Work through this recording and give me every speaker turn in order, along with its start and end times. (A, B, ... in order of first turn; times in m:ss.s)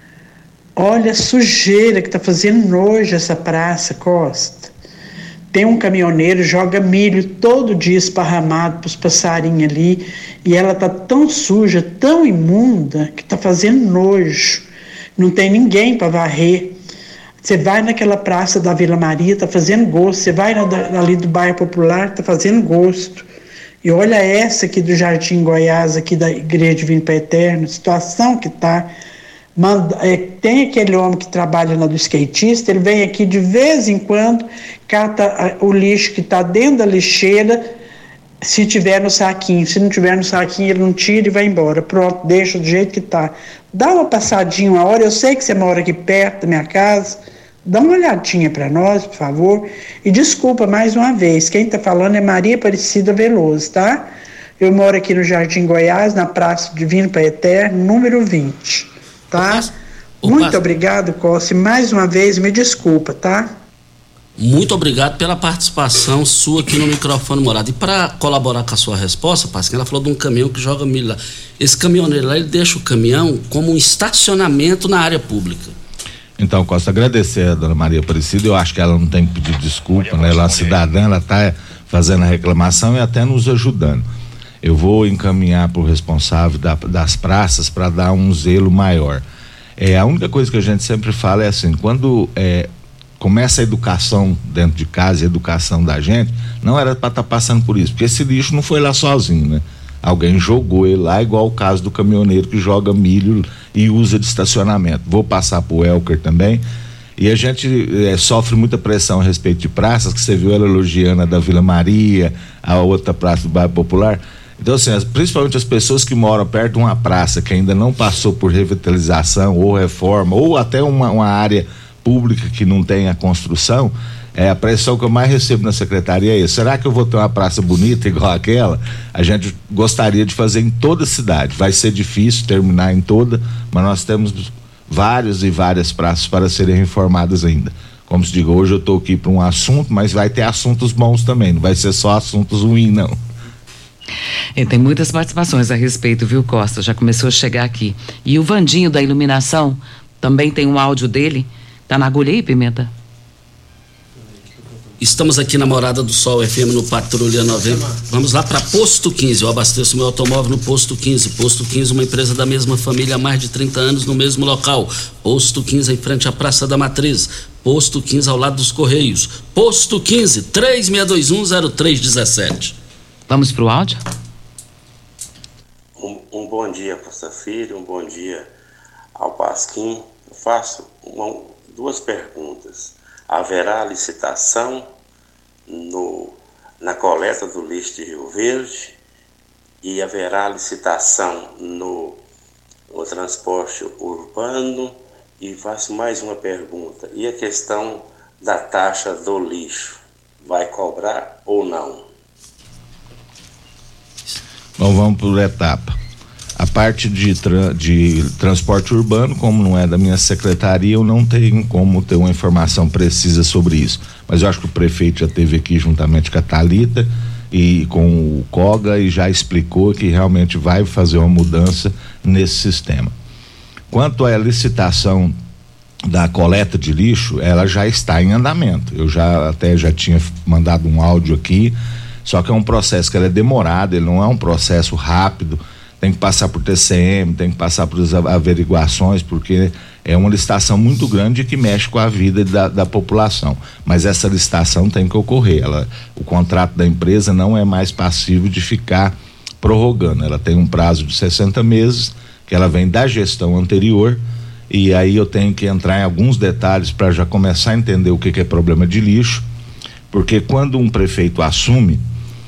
0:00.8-0:04.7 A
0:05.5-0:14.6 A
0:15.2-0:16.8 A
0:17.4-0:23.2 A
0:23.8-0:28.9 A
0:29.6-0:37.6 A
0:38.4-0:59.7 A
0:59.4-0:59.7 B
1:00.2-1:00.6 B
1:00.2-1:03.5 A
1:04.4-1:15.7 B
1:16.4-1:24.0 C
1:24.6-1:29.2 C
1:29.8-1:46.6 C
1:47.2-2:23.2 C
2:24.6-2:32.9 D
2:35.0-2:52.7 B
2:53.3-2:54.0 D
2:56.0-2:58.5 E
2:59.1-3:04.9 E
3:05.7-3:09.0 E
3:09.8-3:12.2 E
3:12.9-3:22.1 E
3:24.8-3:25.9 C
3:26.6-3:43.1 C
3:43.9-3:45.3 C
3:46.0-4:19.4 C
4:20.1-4:22.0 C